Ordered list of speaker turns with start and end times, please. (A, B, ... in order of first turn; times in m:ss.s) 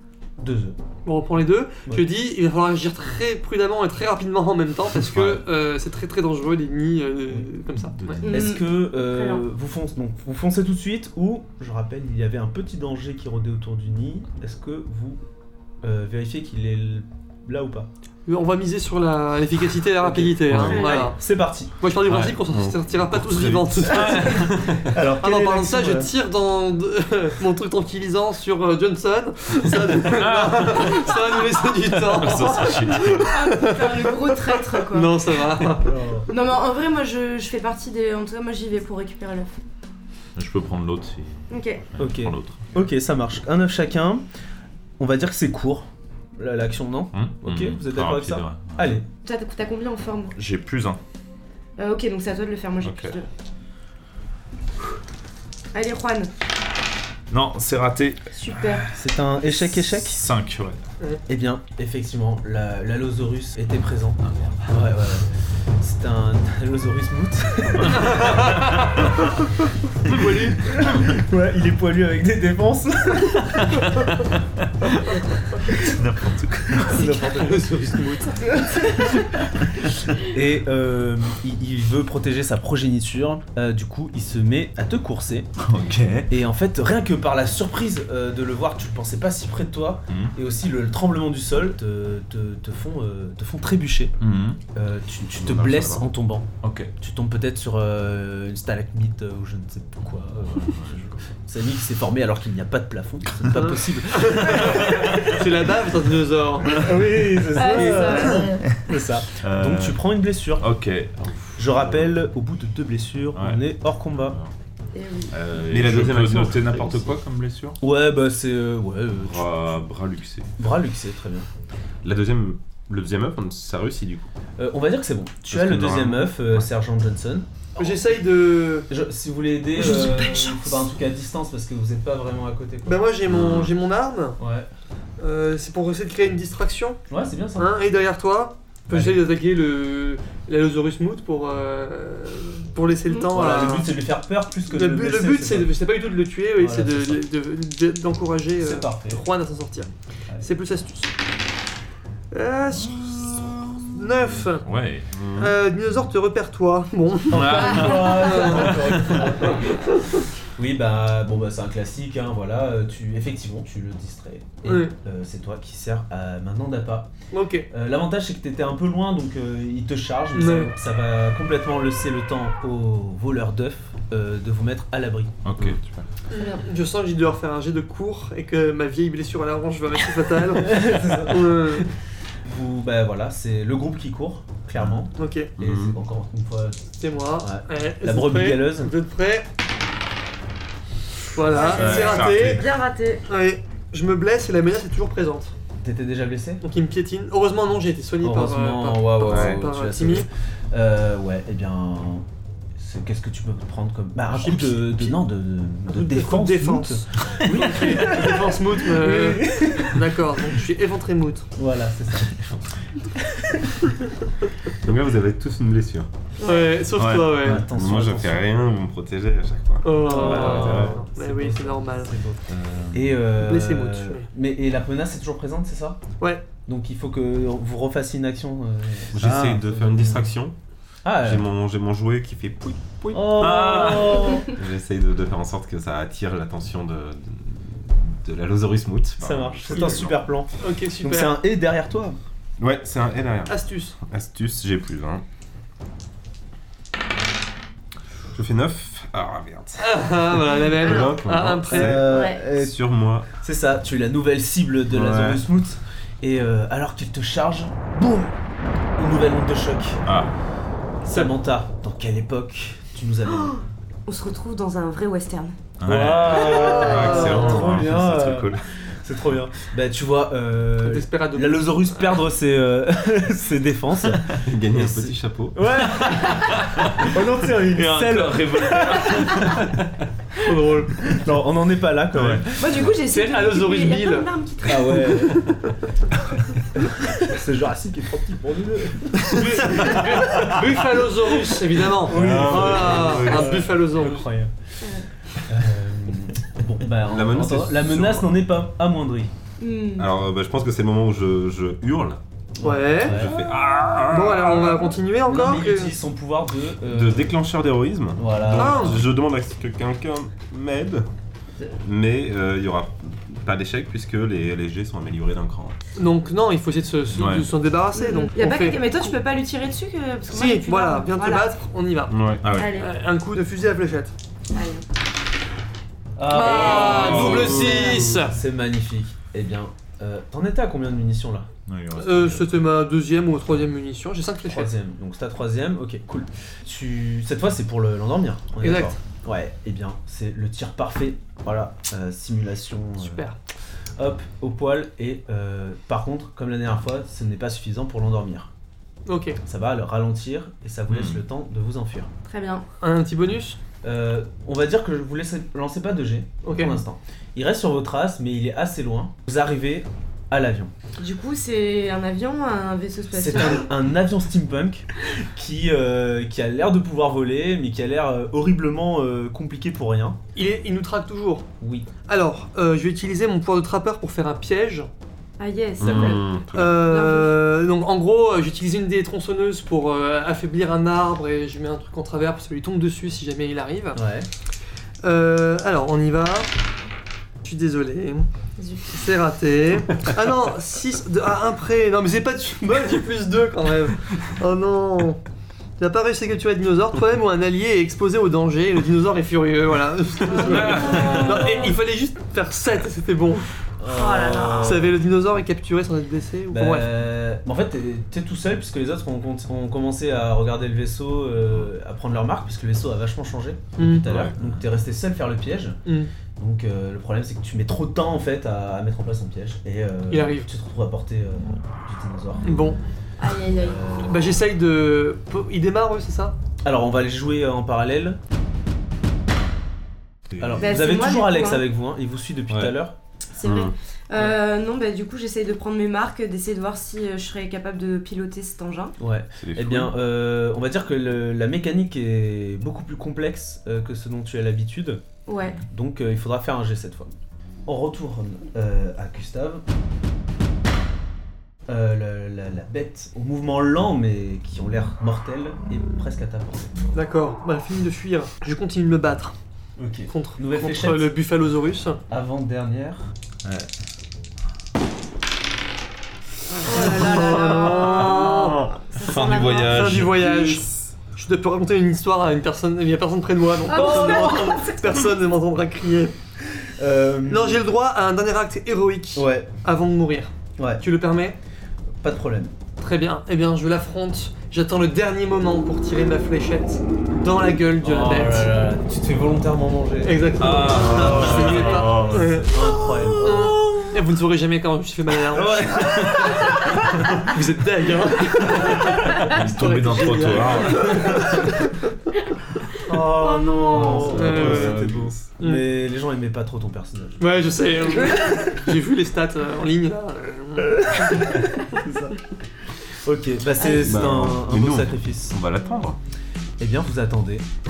0:00.4-0:00.8 A
0:01.1-0:08.2 B
0:08.0-0:08.4 C
0:08.2-0:09.4 D
0:08.3-0:15.2 A
0:15.8-0:17.9 A
0:18.3-0:21.2 B
0:20.0-0:21.7 A
0:20.5-0:20.8 C
0:20.6-0:21.1 D
0:21.8-0:24.7 B
0:22.1-0:22.4 C
0:22.4-0:24.9 E
0:23.9-0:26.1 A
0:24.0-0:24.4 C
0:25.2-0:35.9 B
0:30.1-0:31.2 C
0:32.1-0:33.4 C
0:33.1-0:35.5 D
0:35.8-0:36.3 A
0:36.3-0:39.6 D
0:40.4-0:42.7 C
0:41.5-0:41.8 D
0:42.0-0:44.2 A
0:45.0-0:49.0 A
0:47.1-0:49.0 C
0:49.2-0:50.4 D
0:50.4-0:51.0 C
0:51.8-0:53.3 D
0:52.8-0:53.2 C
0:55.7-0:56.3 D
0:57.3-0:59.0 C
0:58.3-0:58.9 D
0:58.9-1:00.2 A
0:59.8-1:00.8 C
1:01.3-1:05.3 A
1:04.2-1:04.8 C
1:05.8-1:08.3 A
1:07.8-1:09.0 C
1:08.0-1:08.8 B
1:10.0-1:10.8 B
1:10.6-1:13.9 A
1:13.8-1:15.0 C
1:15.7-1:17.0 C
1:16.8-1:17.7 A
1:16.9-1:17.3 D
1:17.0-1:18.6 B
1:18.4-1:19.3 A
1:20.1-1:25.5 A
1:25.6-1:26.3 C
1:26.3-1:34.2 A
1:30.1-1:30.4 C
1:34.2-1:34.6 C
1:34.7-1:45.5 A
1:35.4-1:36.1 E
1:36.6-1:36.9 C
1:40.5-1:41.2 C
1:43.6-1:47.1 B
1:44.8-1:45.4 C
1:46.8-1:50.7 A
1:47.5-1:48.7 D
1:47.7-1:48.4 B
1:48.7-1:50.0 C
1:50.6-1:52.0 C
1:51.6-1:54.4 A
1:53.4-1:54.5 C
1:54.9-1:55.4 D
1:55.3-1:57.8 C
1:55.6-1:57.2 E
1:57.8-1:59.8 A
1:59.2-2:00.5 C
2:00.6-2:01.5 A
2:02.0-2:04.3 E
2:04.6-2:08.0 A
2:05.5-2:06.6 E
2:07.8-2:08.9 B
2:08.9-2:13.0 A
2:09.8-2:10.8 D
2:12.8-2:14.4 B
2:13.3-2:13.7 E
2:14.4-2:14.7 A
2:15.2-2:17.0 B
2:17.1-2:17.8 A
2:17.6-2:24.0 B
2:18.9-2:19.2 A
2:23.3-2:25.7 A
2:24.7-2:31.1 B
2:26.6-2:27.2 A
2:28.6-2:29.2 A
2:32.3-2:34.7 B
2:34.6-2:35.1 C
2:35.1-2:35.5 E
2:35.4-2:40.2 B
2:37.3-2:39.2 C
2:37.3-2:39.8 A
2:37.8-2:38.3 D
2:40.6-2:47.1 A
2:44.6-2:44.9 B
2:47.3-2:47.7 B
2:47.7-2:55.4 A
2:50.3-2:50.7 B
2:55.4-2:56.0 C
2:56.3-3:01.9 B
2:56.3-2:56.6 D
3:00.5-3:01.9 A
3:02.4-3:08.9 A
3:05.2-3:05.5 B
3:05.6-3:06.0 E
3:07.0-3:09.5 B
3:11.3-3:12.6 B
3:11.5-3:13.2 D
3:11.7-3:12.7 C
3:13.3-3:15.6 B
3:15.8-3:16.6 A
3:16.6-3:20.3 B
3:18.2-3:30.2 A
3:19.2-3:19.6 E
3:24.3-3:25.2 B
3:25.9-3:31.5 B
3:31.6-3:33.9 A
3:34.8-3:36.1 E
3:36.4-3:36.7 D
3:36.4-3:37.7 B
3:37.0-3:37.6 C
3:37.4-3:38.5 A
3:37.6-3:41.0 E
3:39.8-3:42.1 B
3:40.0-3:46.0 A
3:40.5-3:41.0 C
3:42.6-3:43.0 E
3:43.4-3:44.3 B
3:46.7-3:50.3 A
3:49.1-3:50.6 E
3:51.0-3:51.5 A
3:51.2-4:00.2 E
3:53.1-3:54.5 A
3:53.4-3:54.4 C
3:59.2-4:00.5 A
3:59.7-4:00.1 B
4:00.6-4:01.4 B
4:01.0-4:02.2 A
4:02.6-4:05.2 E
4:03.5-4:04.0 B
4:08.3-4:13.3 E
4:09.8-4:12.0 B
4:10.8-4:11.1 D
4:11.7-4:12.8 A
4:12.0-4:12.4 D
4:13.3-4:18.4 A
4:14.9-4:15.4 C
4:19.0-4:20.0 A
4:20.0-4:20.3 C
4:21.0-4:23.6 A
4:21.1-4:21.3 B
4:23.4-4:25.6 D
4:25.8-4:28.2 C
4:25.8-4:39.7 A
4:26.4-4:28.6 E
4:26.4-4:27.7 B
4:30.8-4:32.0 B
4:34.3-4:35.7 E
4:35.9-4:37.1 C
4:37.6-4:40.0 C
4:40.4-4:40.9 B
4:40.6-4:42.8 A
4:42.1-4:42.5 C
4:42.6-4:45.4 D
4:43.1-4:44.3 B
4:44.6-4:45.6 A
4:46.8-4:50.6 A
4:49.3-4:54.3 B
4:49.8-4:50.6 C
4:52.0-4:54.5 A
4:52.1-4:53.7 C
4:55.5-4:59.3 A
4:57.1-4:58.3 E
4:59.6-5:00.1 D
5:00.0-5:02.2 E
5:02.6-5:03.4 A
5:02.6-5:03.2 B
5:03.1-5:04.0 E
5:03.2-5:04.8 C
5:04.1-5:06.0 B
5:05.2-5:07.4 A
5:06.9-5:11.1 E
5:08.2-5:09.0 A
5:08.5-5:09.0 B
5:11.7-5:15.8 E
5:16.0-5:19.0 B
5:17.1-5:17.5 C
5:18.0-5:21.5 D
5:20.3-5:24.1 B
5:22.1-5:22.4 E
5:22.4-5:22.8 C
5:22.5-5:22.9 D
5:24.5-5:24.8 D
5:26.2-5:31.5 A
5:26.3-5:28.1 D
5:26.3-5:28.4 B
5:26.9-5:27.7 C
5:31.7-5:32.6 C
5:32.0-5:34.7 B
5:34.5-5:43.3 A
5:38.6-5:39.0 B
5:43.0-5:43.4 B
5:44.0-5:48.5 A
5:49.1-5:49.4 B
5:49.4-5:52.1 A
5:50.9-5:51.2 C
5:52.3-5:52.6 D
5:52.8-5:53.6 B
5:53.8-6:00.7 A
5:56.4-5:56.8 B
6:01.0-6:03.7 D
6:03.1-6:10.2 A
6:10.4-6:11.5 B
6:11.6-6:11.9 A
6:12.1-6:14.9 B
6:15.4-6:16.3 D
6:15.8-6:16.8 E
6:15.8-6:16.2 A
6:15.9-6:24.0 B
6:16.8-6:17.3 D
6:24.0-6:24.3 A
6:25.0-6:26.5 B
6:27.4-6:28.3 B
6:28.6-6:28.9 D
6:28.9-6:35.2 B
6:35.8-6:43.5 B
6:40.5-6:41.3 C
6:40.5-6:41.7 D
6:43.8-6:44.9 A
6:43.9-6:44.8 D
6:44.6-6:46.9 B
6:46.5-6:55.8 A
6:53.8-6:54.1 B
6:54.0-6:54.4 E
6:56.4-7:02.6 A
7:00.1-7:00.5 B
7:02.4-7:02.8 B
7:03.2-7:03.8 D
7:03.6-7:04.3 A
7:04.0-7:06.4 B
7:06.6-7:08.2 A
7:10.3-7:10.7 C
7:10.4-7:13.0 A
7:10.6-7:11.6 D
7:13.4-7:19.0 D
7:13.4-7:13.7 E
7:19.0-7:25.0 A
7:19.4-7:19.8 C
7:25.3-7:25.6 D
7:25.6-7:27.1 A
7:27.7-7:29.6 A
7:31.7-7:36.7 A
7:36.9-7:39.4 B
7:39.8-7:41.1 A
7:40.1-7:42.0 B
7:42.1-7:43.1 A
7:43.4-7:43.7 C
7:46.6-7:48.7 B
7:46.6-7:50.0 D
7:48.2-7:50.6 C
7:49.6-7:56.2 B
7:53.7-7:55.0 D
7:53.7-7:54.6 A
7:56.8-7:57.6 A
7:57.3-8:01.4 B
7:59.2-7:59.5 A
8:00.6-8:00.8 A
8:02.0-8:02.5 A
8:02.8-8:08.7 B
8:07.8-8:13.8 A
8:10.0-8:21.7 B
8:10.4-8:12.4 C
8:15.3-8:17.2 A
8:19.2-8:21.4 C
8:22.9-8:27.2 A
8:22.9-8:24.8 B
8:23.1-8:24.2 D
8:24.0-8:25.2 C
8:24.4-8:25.1 E
8:25.4-8:25.7 B
8:27.2-8:31.4 B
8:30.8-8:32.2 A
8:32.9-8:35.4 A
8:33.6-8:33.9 D
8:33.8-8:36.0 E
8:36.6-8:37.5 A